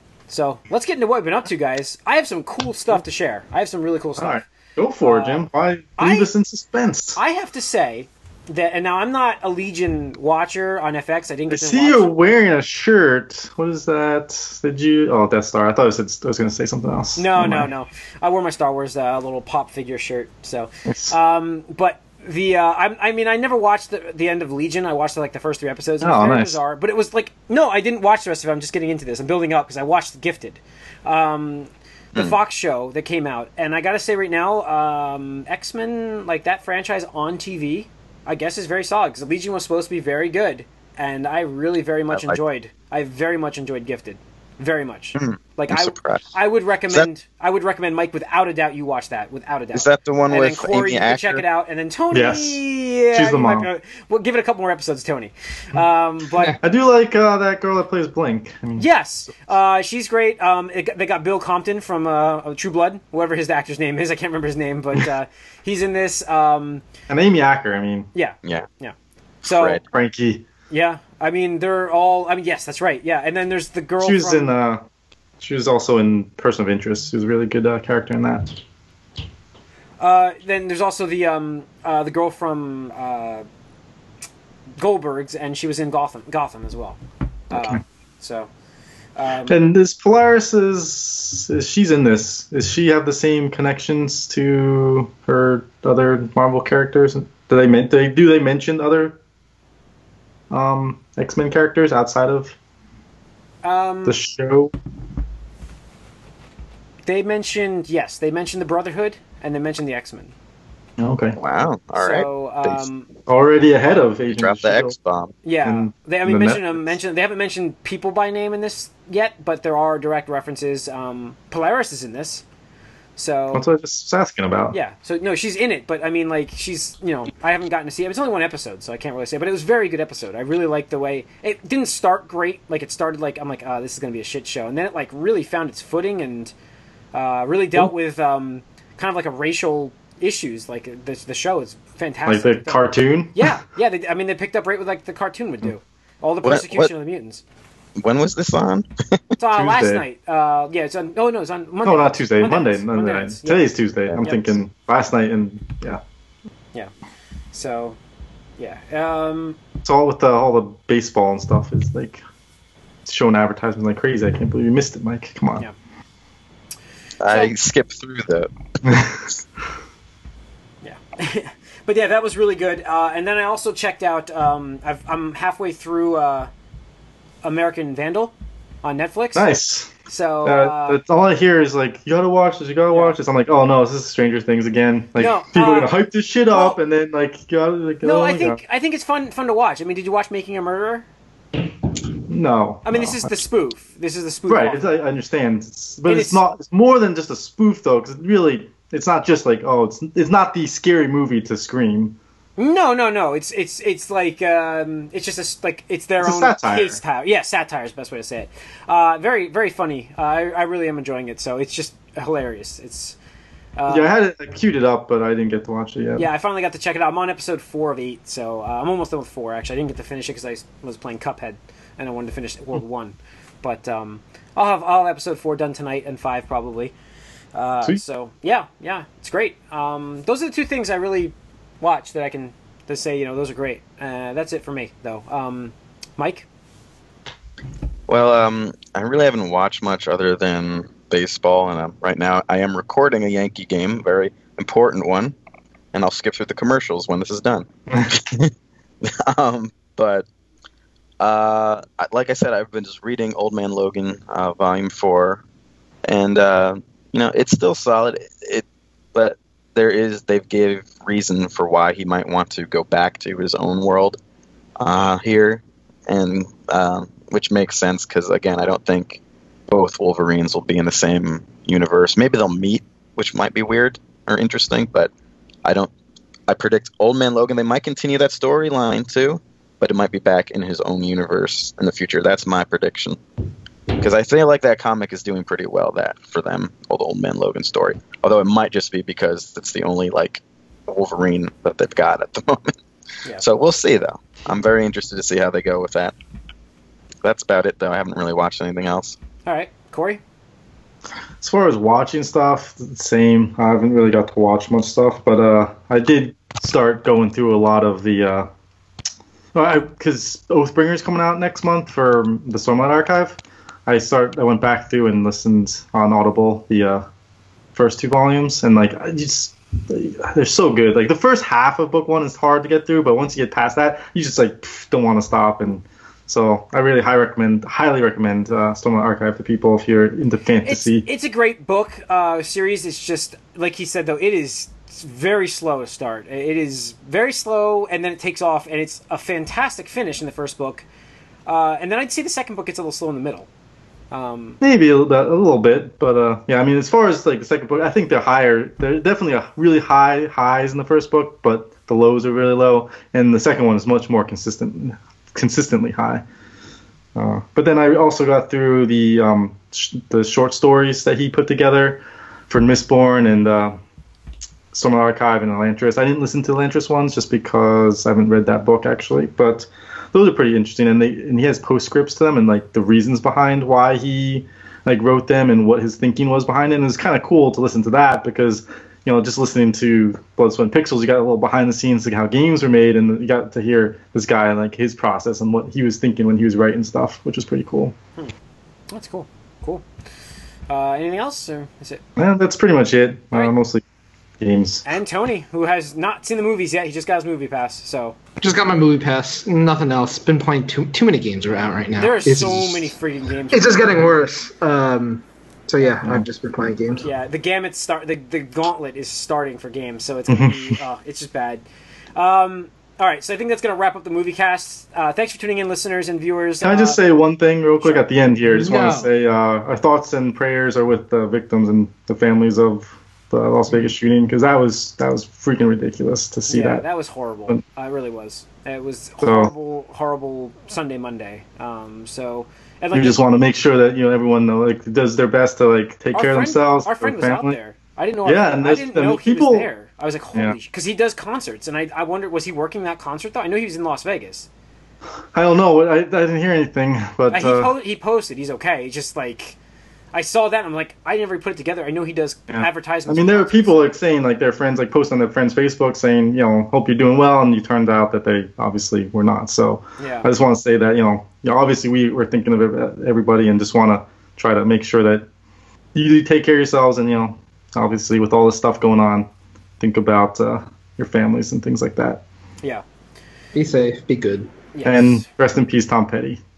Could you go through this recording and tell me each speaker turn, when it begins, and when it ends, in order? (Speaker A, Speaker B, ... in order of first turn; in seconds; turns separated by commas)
Speaker A: 0.3-4.5, Speaker B: 4.2-7.2, Speaker A: 5.0-5.4, Speaker A: 6.0-6.3, Speaker A: 7.2-12.1, Speaker B: 11.5-17.7, Speaker A: 17.2-56.6, Speaker B: 20.9-21.1, Speaker B: 26.0-26.6, Speaker C: 42.1-42.4, Speaker C: 45.2-46.3, Speaker C: 49.7-51.4, Speaker B: 52.1-53.7, Speaker B: 56.6-58.9, Speaker A: 58.8-66.8, Speaker B: 67.1-68.1, Speaker A: 68.1-69.8, Speaker C: 69.4-69.8, Speaker B: 69.9-70.4, Speaker A: 70.7-74.5, Speaker B: 74.0-74.8, Speaker B: 75.4-78.5, Speaker A: 80.0-83.5, Speaker A: 84.8-87.0, Speaker A: 87.5-88.5, Speaker B: 87.5-87.8, Speaker A: 89.2-89.6, Speaker B: 89.5-99.2, Speaker B: 100.5-102.6, Speaker A: 103.6-104.2, Speaker B: 104.0-104.7, Speaker A: 107.1-110.3, Speaker B: 111.0-111.4, Speaker C: 111.4-112.8, Speaker A: 112.0-113.1, Speaker B: 113.3-115.0, Speaker C: 114.3-115.3, Speaker A: 115.4-122.4, Speaker B: 115.6-117.0, Speaker A: 123.2-123.7, Speaker B: 123.5-124.8, Speaker A: 124.7-136.5, Speaker A: 137.1-147.4, Speaker B: 142.3-143.4, Speaker C: 146.4-146.9, Speaker C: 148.0-149.2, Speaker A: 149.4-153.7, Speaker B: 149.5-150.1, Speaker B: 151.8-156.0, Speaker A: 154.2-154.6, Speaker A: 157.5-158.0, Speaker A: 158.6-159.6, Speaker B: 159.8-162.2, Speaker B: 163.1-165.7, Speaker C: 167.2-168.5, Speaker B: 168.8-169.2, Speaker A: 170.8-176.5, Speaker A: 177.4-179.5, Speaker B: 179.3-179.9, Speaker A: 180.1-181.0, Speaker B: 180.4-188.6, Speaker A: 182.9-183.2, Speaker A: 185.2-186.0, Speaker A: 186.5-186.8, Speaker A: 188.0-191.1, Speaker B: 192.3-193.3, Speaker A: 192.8-195.0, Speaker B: 194.5-202.2, Speaker A: 196.1-196.4, Speaker A: 202.6-213.2, Speaker B: 206.2-207.0, Speaker A: 213.8-214.1, Speaker B: 213.9-216.3, Speaker A: 216.2-226.9, Speaker A: 227.6-236.5, Speaker C: 238.1-245.3, Speaker C: 245.9-248.5, Speaker C: 249.0-250.2, Speaker C: 251.2-255.4, Speaker C: 256.1-258.6, Speaker C: 259.1-264.2, Speaker C: 264.8-275.1, Speaker C: 275.6-275.9, Speaker C: 276.5-283.2, Speaker C: 283.9-292.8, Speaker C: 293.4-296.1, Speaker C: 297.2-299.2, Speaker A: 299.5-300.2, Speaker B: 301.4-308.5, Speaker B: 309.6-317.1, Speaker B: 317.8-331.1, Speaker A: 330.6-340.9, Speaker A: 341.5-343.5, Speaker A: 344.1-344.6, Speaker B: 344.6-356.2, Speaker B: 357.1-363.8, Speaker B: 364.7-388.0, Speaker A: 388.9-389.8, Speaker A: 390.7-392.0, Speaker B: 392.2-393.8, Speaker B: 394.4-394.8, Speaker A: 394.9-398.2, Speaker D: 398.4-403.0, Speaker A: 402.0-404.0, Speaker D: 403.5-407.1, Speaker A: 407.0-411.6, Speaker B: 410.3-410.8, Speaker A: 412.2-417.0, Speaker B: 416.6-426.9, Speaker A: 417.8-418.3, Speaker D: 418.4-419.1, Speaker A: 426.5-433.2, Speaker B: 429.2-429.5, Speaker B: 432.9-437.6, Speaker A: 436.1-444.5, Speaker B: 438.3-439.7, Speaker B: 445.3-447.7, Speaker A: 447.3-449.6, Speaker A: 450.1-453.9, Speaker B: 452.5-465.3, Speaker A: 460.0-460.3, Speaker B: 465.9-469.3, Speaker B: 469.8-472.2, Speaker D: 473.5-474.5, Speaker A: 474.7-475.2, Speaker B: 474.9-476.4